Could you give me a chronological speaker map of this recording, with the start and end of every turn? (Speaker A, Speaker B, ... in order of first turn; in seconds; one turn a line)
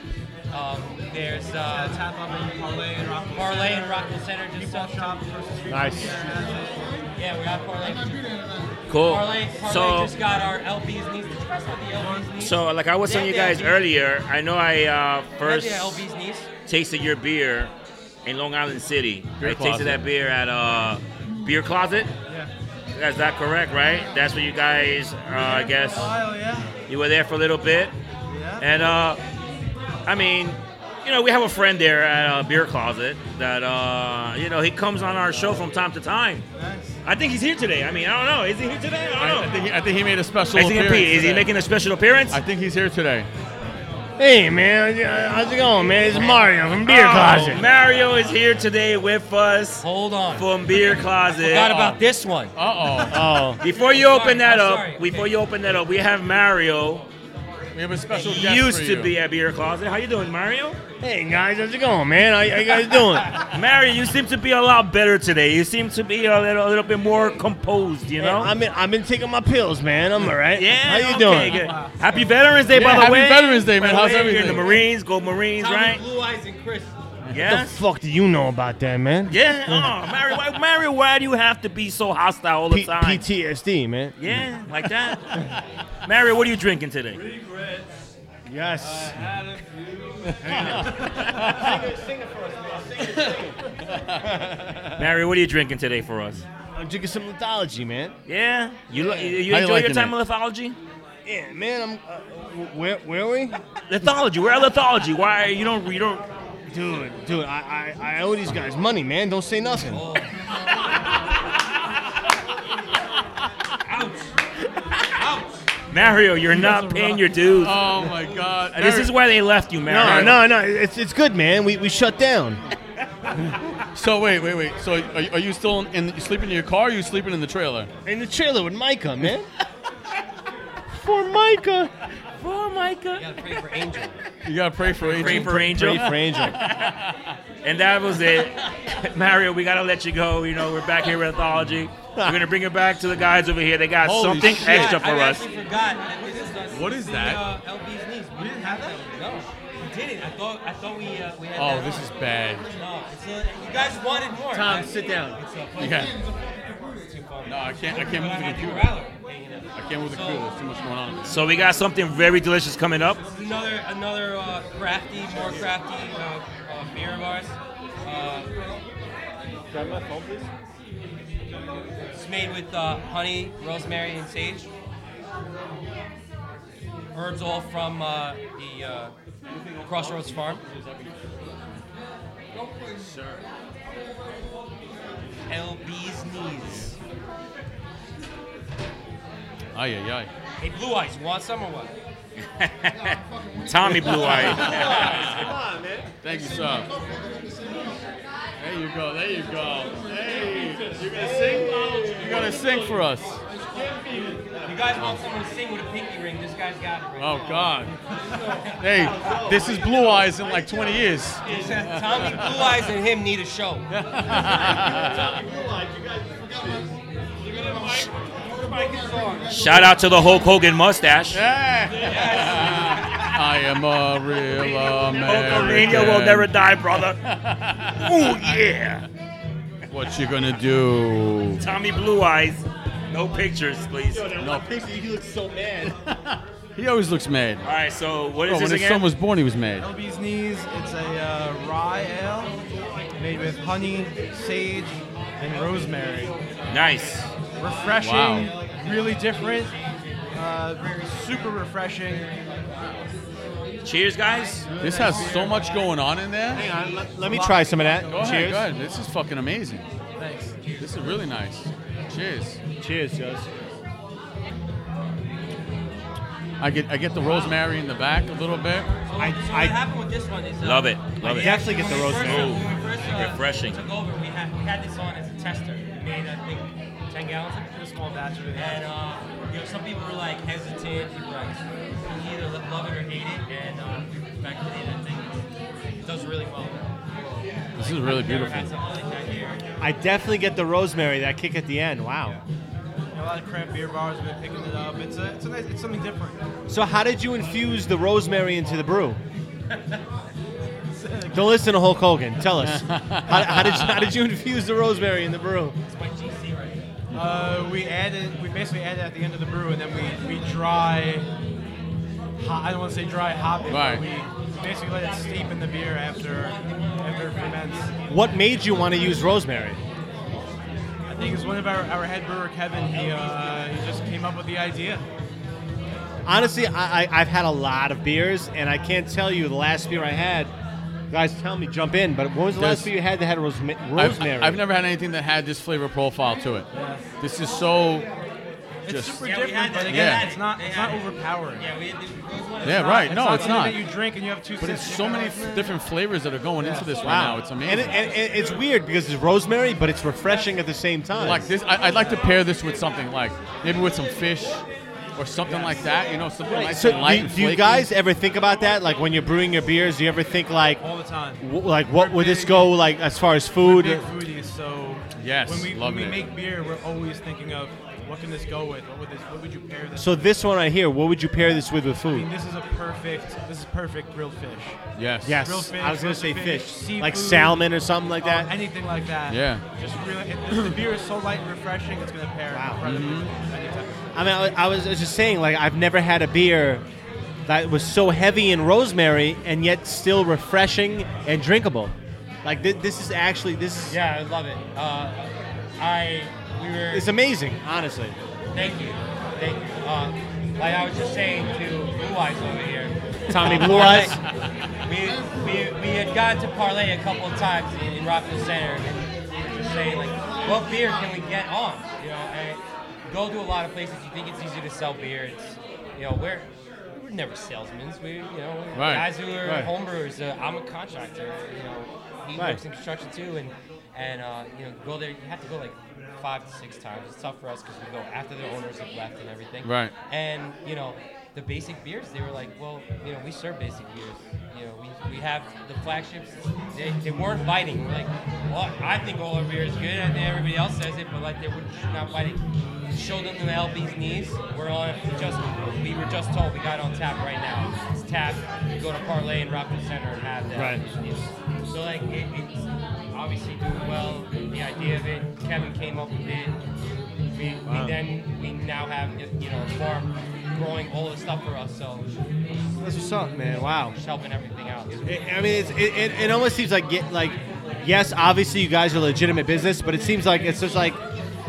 Speaker A: 0.5-2.0
Speaker B: 1.7-6.9
Speaker A: 3.3-5.2
Speaker C: 5.7-6.2
Speaker A: 7.2-8.4
Speaker D: 8.9-10.1
Speaker A: 8.9-13.8
Speaker B: 12.0-12.3
Speaker D: 12.4-16.0
Speaker A: 15.4-16.5
Speaker D: 16.7-17.7
Speaker D: 18.2-22.1
Speaker E: 19.4-20.0
Speaker D: 22.9-26.2
Speaker B: 25.3-26.7
Speaker D: 26.9-27.9
Speaker B: 28.3-28.7
Speaker D: 28.6-29.2
Speaker D: 30.1-36.5
Speaker B: 36.6-37.0
Speaker D: 37.0-39.5
Speaker E: 39.2-41.5
Speaker D: 40.5-42.4
Speaker E: 42.3-43.3
Speaker C: 44.2-47.6
Speaker D: 46.1-51.7
Speaker A: 49.8-50.6
Speaker A: 51.4-52.5
Speaker E: 51.5-52.0
Speaker E: 52.6-53.5
Speaker C: 53.1-53.6
Speaker A: 53.6-55.4
Speaker D: 53.6-57.1
Speaker E: 57.7-59.1
Speaker D: 58.1-60.8
Speaker C: 61.0-63.3
Speaker D: 63.5-68.5
Speaker C: 68.2-71.6
Speaker D: 70.5-76.0
Speaker B: 71.0-72.3
Speaker E: 72.7-74.8
Speaker A: 74.3-74.8
Speaker A: 75.6-77.0
Speaker D: 77.3-77.8
Speaker C: 77.3-80.0
Speaker D: 79.3-83.2
Speaker C: 82.7-84.3
Speaker D: 84.2-85.5
Speaker D: 86.0-87.2
Speaker C: 88.5-89.2
Speaker E: 90.3-91.9
Speaker C: 90.4-93.6
Speaker C: 94.2-94.9
Speaker D: 95.0-96.5
Speaker C: 96.7-98.2
Speaker D: 98.3-100.8
Speaker C: 98.9-99.4
Speaker E: 99.5-100.1
Speaker C: 101.2-103.6
Speaker D: 103.9-106.3
Speaker C: 106.7-110.0
Speaker A: 109.9-110.3
Speaker A: 113.9-114.3
Speaker A: 115.2-115.6
Speaker D: 115.9-117.8
Speaker B: 116.9-117.2
Speaker E: 117.6-119.1
Speaker D: 118.7-120.4
Speaker C: 119.9-122.6
Speaker E: 120.0-120.3
Speaker E: 124.0-127.9
Speaker C: 128.1-129.5
Speaker C: 130.9-131.9
Speaker D: 132.4-133.4
Speaker A: 133.2-134.2
Speaker E: 134.4-136.8
Speaker D: 135.0-137.0
Speaker C: 135.2-136.6
Speaker D: 137.6-145.4
Speaker E: 144.0-145.1
Speaker A: 144.4-152.1
Speaker E: 146.7-147.5
Speaker B: 148.4-149.0
Speaker E: 151.6-152.7
Speaker A: 152.7-156.2
Speaker C: 154.5-155.4
Speaker E: 155.8-156.1
Speaker A: 157.0-160.5
Speaker E: 157.5-159.0
Speaker E: 159.8-161.3
Speaker D: 161.3-163.2
Speaker A: 163.3-168.5
Speaker C: 169.7-170.5
Speaker A: 172.1-174.7
Speaker A: 177.1-179.1
Speaker E: 179.5-181.3
Speaker A: 179.8-180.6
Speaker E: 183.0-183.4
Speaker A: 185.5-187.0
Speaker E: 189.7-190.3
Speaker A: 190.6-191.9
Speaker D: 192.6-195.1
Speaker E: 194.1-195.5
Speaker C: 194.5-196.2
Speaker A: 194.6-195.3
Speaker E: 196.2-196.9
Speaker E: 198.6-203.4
Speaker C: 201.1-202.9
Speaker C: 204.0-204.3
Speaker A: 204.7-207.7
Speaker E: 207.2-208.0
Speaker C: 208.4-210.1
Speaker A: 208.5-209.3
Speaker E: 208.7-212.7
Speaker A: 211.4-213.9
Speaker E: 213.9-215.4
Speaker C: 214.5-216.9
Speaker C: 217.5-219.8
Speaker D: 219.5-221.4
Speaker E: 221.3-226.5
Speaker A: 221.9-223.3
Speaker D: 225.1-229.1
Speaker E: 227.4-227.9
Speaker E: 229.9-231.6
Speaker D: 231.6-234.3
Speaker C: 234.1-235.9
Speaker E: 234.4-234.7
Speaker E: 235.9-237.7
Speaker D: 237.7-239.1
Speaker E: 238.4-239.9
Speaker B: 239.8-242.6
Speaker B: 243.2-246.3
Speaker D: 246.7-247.3
Speaker B: 247.6-249.8
Speaker E: 248.0-248.5
Speaker B: 250.3-252.3
Speaker D: 253.8-254.7
Speaker E: 254.8-256.7
Speaker B: 254.8-255.7
Speaker C: 256.5-258.6
Speaker B: 257.2-258.5
Speaker E: 258.1-259.8
Speaker B: 260.2-260.5
Speaker E: 260.8-262.6
Speaker C: 262.8-263.5
Speaker E: 266.6-268.9
Speaker A: 269.1-277.8
Speaker C: 269.2-269.8
Speaker D: 270.6-273.8
Speaker C: 271.2-272.6
Speaker B: 277.7-278.8
Speaker A: 278.5-285.4
Speaker A: 286.0-289.6
Speaker E: 287.8-288.7
Speaker C: 289.8-292.4
Speaker B: 293.1-296.4
Speaker C: 296.7-299.2
Speaker B: 300.9-301.7
Speaker C: 301.3-305.8
Speaker E: 302.7-304.0
Speaker A: 305.9-306.8
Speaker B: 307.1-311.3
Speaker B: 312.4-317.9
Speaker E: 313.7-314.1
Speaker A: 314.5-318.1
Speaker C: 318.1-319.8
Speaker B: 321.1-325.0
Speaker A: 322.8-323.9
Speaker C: 326.2-330.5
Speaker C: 331.1-334.6
Speaker E: 332.6-332.9
Speaker E: 334.0-338.1
Speaker B: 336.7-337.1
Speaker B: 338.9-341.7
Speaker E: 338.9-339.3
Speaker A: 339.2-343.8
Speaker E: 339.9-340.3
Speaker E: 342.6-343.9
Speaker B: 342.7-345.8
Speaker E: 344.6-348.0
Speaker B: 346.6-347.0
Speaker C: 347.0-351.5
Speaker E: 351.2-354.6
Speaker E: 355.2-357.9
Speaker B: 355.4-355.9
Speaker C: 356.5-360.8
Speaker B: 360.8-362.8
Speaker C: 361.4-364.1
Speaker B: 363.6-370.2
Speaker E: 365.1-366.2
Speaker C: 370.0-372.3
Speaker B: 372.1-374.8
Speaker E: 375.0-375.4
Speaker C: 375.2-378.5
Speaker B: 375.3-377.6
Speaker B: 378.2-383.9
Speaker E: 379.3-379.6
Speaker C: 382.5-382.8
Speaker E: 382.8-383.3
Speaker C: 384.1-386.8
Speaker C: 387.5-394.0
Speaker A: 393.9-397.1
Speaker C: 396.9-398.2
Speaker A: 398.5-404.2
Speaker C: 403.3-404.2
Speaker A: 404.9-442.4
Speaker E: 418.8-419.2
Speaker C: 419.4-419.7
Speaker E: 429.6-429.9
Speaker A: 442.9-456.6
Speaker C: 450.6-450.8
Speaker A: 457.3-462.1
Speaker C: 457.7-458.0
Speaker C: 462.8-464.0
Speaker A: 463.9-466.6
Speaker C: 465.1-471.0